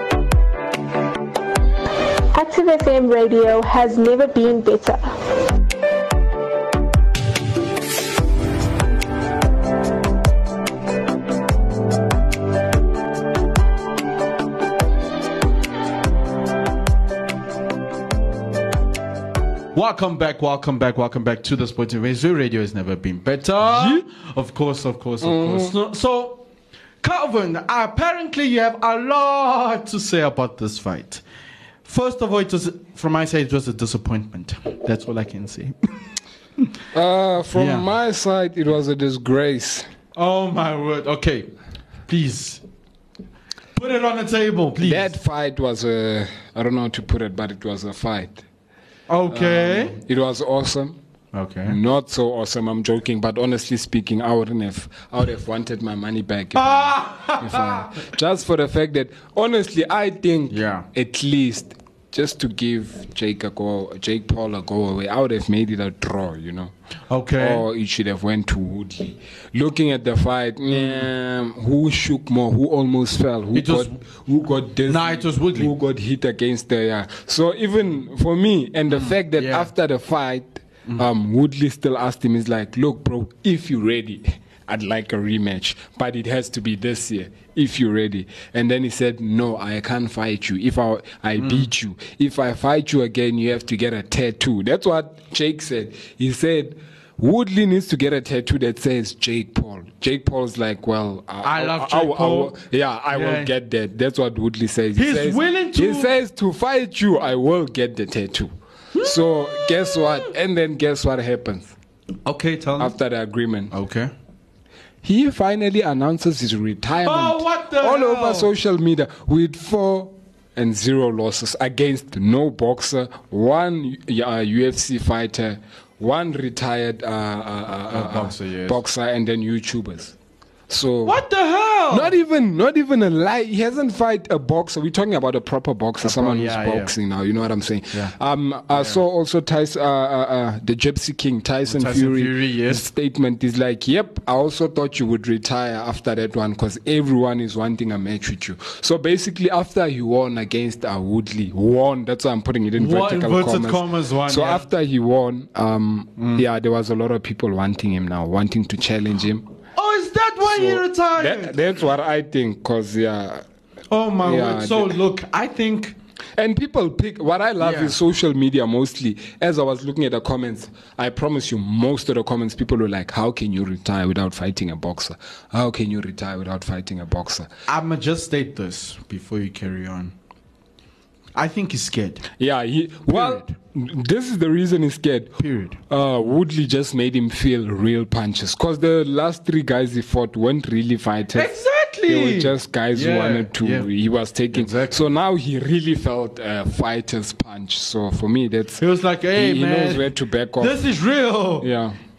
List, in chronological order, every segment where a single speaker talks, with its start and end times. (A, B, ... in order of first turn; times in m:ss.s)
0:02.3-0:05.0 A
0:19.7-0:26.4 B
0:23.6-0:24.0 C
0:25.2-0:25.8 C
0:27.0-0:31.2 B
0:31.8-0:36.0 B
0:36.9-0:39.9 C
0:37.5-0:37.9 B
0:40.2-0:41.5 B
0:42.1-0:42.6 B
0:43.8-0:45.1 B
0:44.8-0:48.4 C
0:49.1-0:50.0 B
0:49.3-0:51.0 C
0:51.3-0:51.8 B
0:51.7-1:06.7 C
0:56.6-0:57.9 B
1:00.5-1:00.9 B
1:07.1-1:07.6 B
1:07.4-1:51.7 C
1:10.7-1:11.1 B
1:13.5-1:14.0 B
1:14.9-1:15.7 B
1:18.9-1:19.7 B
1:31.4-1:31.7 B
1:41.4-1:42.6 B
1:43.1-1:43.5 B
1:45.0-1:46.1 B
1:49.0-1:50.0 B
1:52.3-1:52.9 B
1:52.8-1:53.7 C
1:53.7-1:54.1 B
1:55.0-2:10.2 C
1:57.0-1:58.5 B
2:07.9-2:08.8 B
2:10.7-2:11.2 C
2:11.0-2:12.1 B
2:11.9-2:39.5 C
2:16.0-2:16.9 B
2:18.7-2:19.0 B
2:21.7-2:22.9 B
2:32.8-2:34.7 B
2:36.2-2:36.4 B
2:39.8-2:41.6 B
2:40.4-2:43.4 C
2:43.9-2:46.0 B
2:44.2-2:45.0 C
2:46.4-2:57.5 C
2:47.6-2:47.9 B
2:57.7-3:00.1 B
3:01.4-3:02.3 B
3:02.4-3:11.5 C
3:03.1-3:03.5 B
3:05.4-3:05.8 B
3:11.4-3:13.9 B
3:12.1-3:18.8 C
3:14.5-3:15.1 B
3:18.8-3:21.7 B
3:19.4-3:20.9 C
3:21.6-3:22.0 C